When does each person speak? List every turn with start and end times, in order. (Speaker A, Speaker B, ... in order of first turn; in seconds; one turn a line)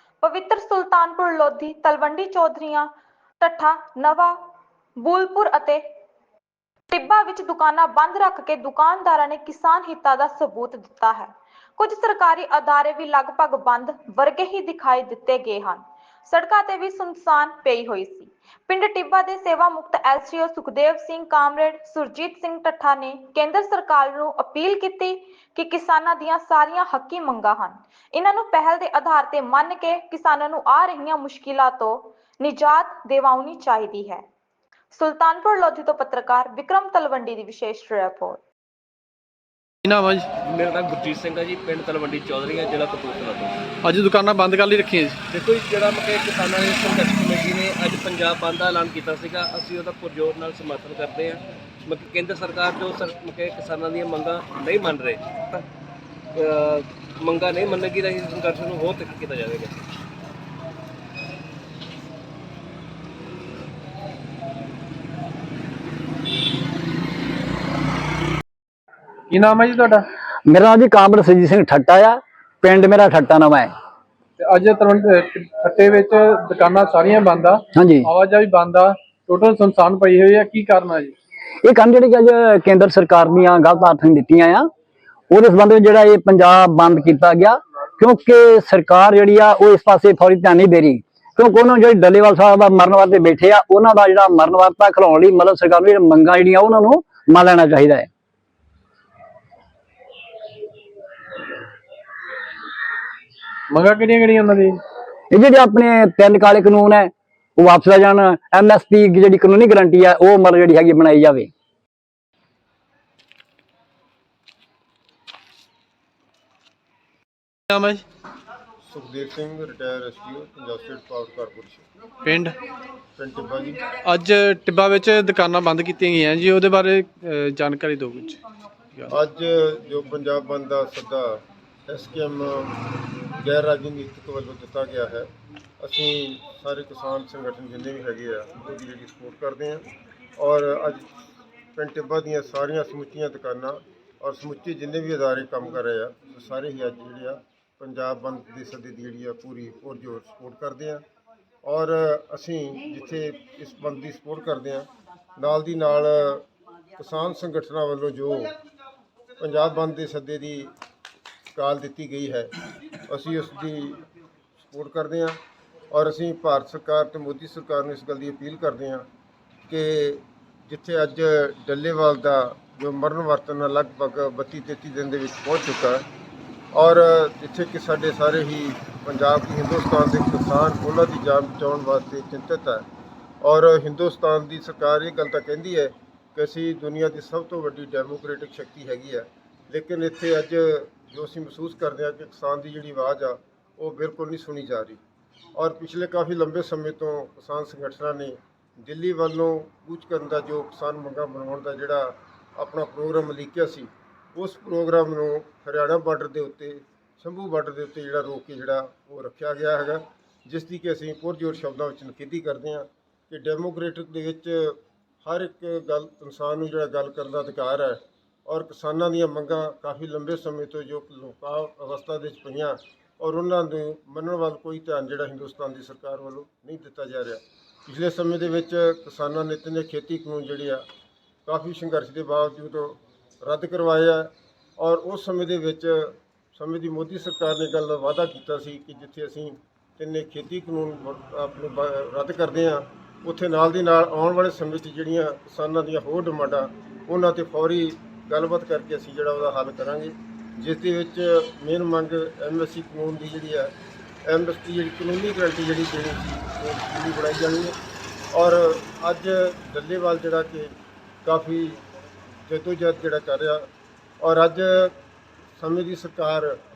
Speaker A: 0.2-2.9
Speaker A: 3.4-4.5
Speaker A: 5.0-5.9
Speaker A: 6.9-34.3
Speaker A: 34.9-38.4
Speaker B: 39.9-40.3
Speaker C: 40.5-43.6
Speaker B: 43.8-45.2
Speaker C: 45.3-55.6
Speaker C: 56.4-59.8
Speaker B: 69.3-70.1
Speaker D: 70.5-73.7
Speaker B: 74.4-81.1
Speaker D: 77.8-78.1
Speaker D: 81.6-84.7
Speaker D: 85.3-98.1
Speaker B: 103.7-104.8
Speaker D: 105.3-111.5
Speaker B: 117.7-118.0
Speaker E: 118.8-121.9
Speaker B: 122.2-122.6
Speaker E: 123.2-123.8
Speaker B: 124.0-128.4
Speaker E: 129.1-132.8
Speaker E: 133.3-135.3
Speaker E: 135.8-141.1
Speaker E: 141.8-151.0
Speaker E: 151.6-156.5
Speaker E: 157.0-158.5
Speaker E: 159.4-160.7
Speaker E: 161.6-162.5
Speaker E: 163.1-164.1
Speaker E: 164.6-165.4
Speaker E: 165.9-169.1
Speaker E: 169.7-176.1
Speaker E: 176.7-182.9
Speaker E: 183.4-195.0
Speaker E: 195.6-230.9
Speaker E: 231.5-253.7
Speaker E: 254.3-257.8
Speaker E: 258.3-261.8
Speaker E: 262.4-263.7
Speaker E: 264.2-265.0
Speaker E: 265.6-266.6